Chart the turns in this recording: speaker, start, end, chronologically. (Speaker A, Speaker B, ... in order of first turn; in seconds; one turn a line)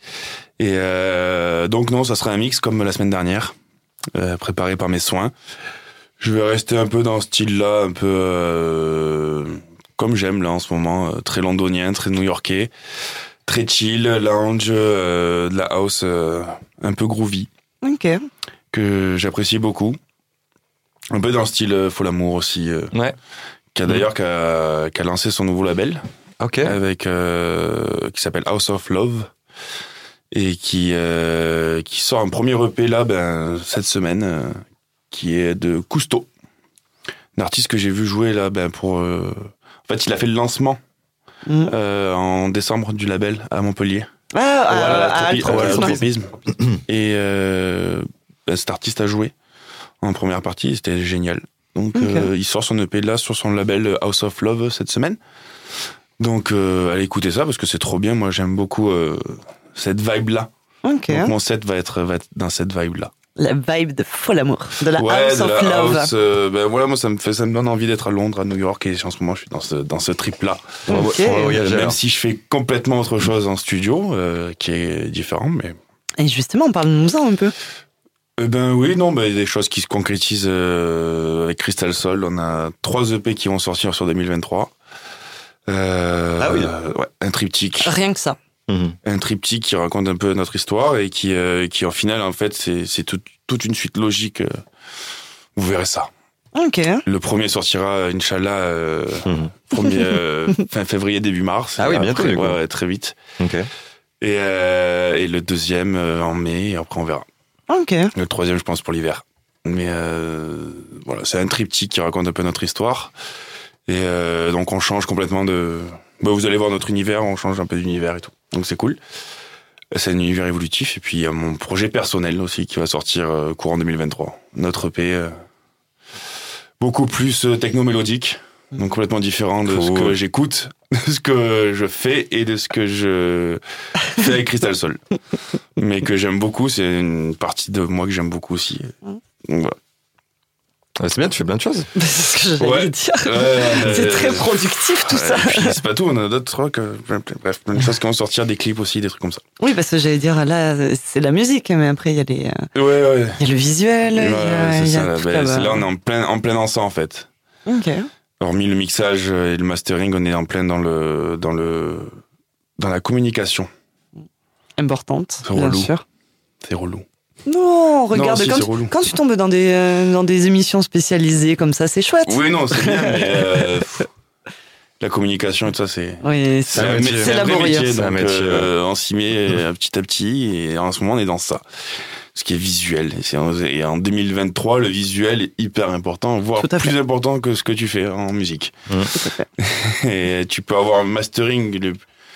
Speaker A: 0.6-3.5
Speaker A: 4.2-5.3
Speaker A: 6.2-12.7
Speaker A: 13.4-17.5
Speaker B: 17.8-18.3
Speaker A: 18.7-20.0
Speaker A: 21.1-22.9
Speaker A: 23.7-26.0
Speaker C: 26.4-26.8
Speaker A: 26.6-29.3
Speaker A: 30.3-36.3
Speaker A: 37.4-40.8
Speaker B: 41.5-41.7
Speaker A: 41.7-44.1
Speaker B: 44.3-46.0
Speaker A: 44.7-49.3
Speaker C: 45.4-46.8
Speaker A: 50.0-55.2
Speaker B: 51.9-52.3
Speaker A: 56.2-60.5
Speaker B: 60.9-61.3
Speaker A: 61.1-63.1
Speaker B: 63.4-66.1
Speaker A: 64.9-75.8
Speaker C: 70.9-72.0
Speaker B: 70.9-71.3
Speaker B: 76.2-77.5
Speaker A: 78.4-84.7
Speaker A: 85.7-87.9
Speaker C: 86.4-86.7
Speaker B: 87.8-88.4
Speaker C: 88.7-89.0
Speaker A: 89.0-94.6
Speaker A: 95.6-96.1
Speaker B: 96.5-97.0
Speaker A: 97.1-103.2
Speaker C: 99.2-99.6
Speaker C: 101.8-102.6
Speaker C: 103.4-103.7
Speaker A: 104.2-107.2
Speaker B: 107.7-108.1
Speaker A: 108.2-113.1
Speaker A: 113.9-119.0
Speaker A: 119.9-125.3
Speaker A: 126.8-135.0
Speaker C: 129.7-130.2
Speaker A: 135.8-138.9
Speaker A: 139.5-139.8
Speaker C: 141.0-141.9
Speaker B: 142.0-145.8
Speaker A: 142.6-149.4
Speaker B: 149.6-152.7
Speaker A: 152.8-153.4
Speaker B: 153.4-155.9
Speaker A: 154.1-157.3
Speaker B: 157.7-158.1
Speaker A: 158.4-162.2
Speaker A: 162.8-163.7
Speaker B: 164.8-166.0
Speaker A: 165.4-165.9
Speaker A: 166.6-167.1
Speaker B: 167.5-173.4
Speaker A: 168.1-169.1
Speaker A: 172.2-174.1
Speaker A: 175.0-181.6
Speaker B: 176.2-177.9
Speaker C: 176.7-178.7
Speaker A: 182.3-188.8
Speaker B: 186.6-186.9
Speaker B: 189.2-189.5
Speaker A: 189.6-192.0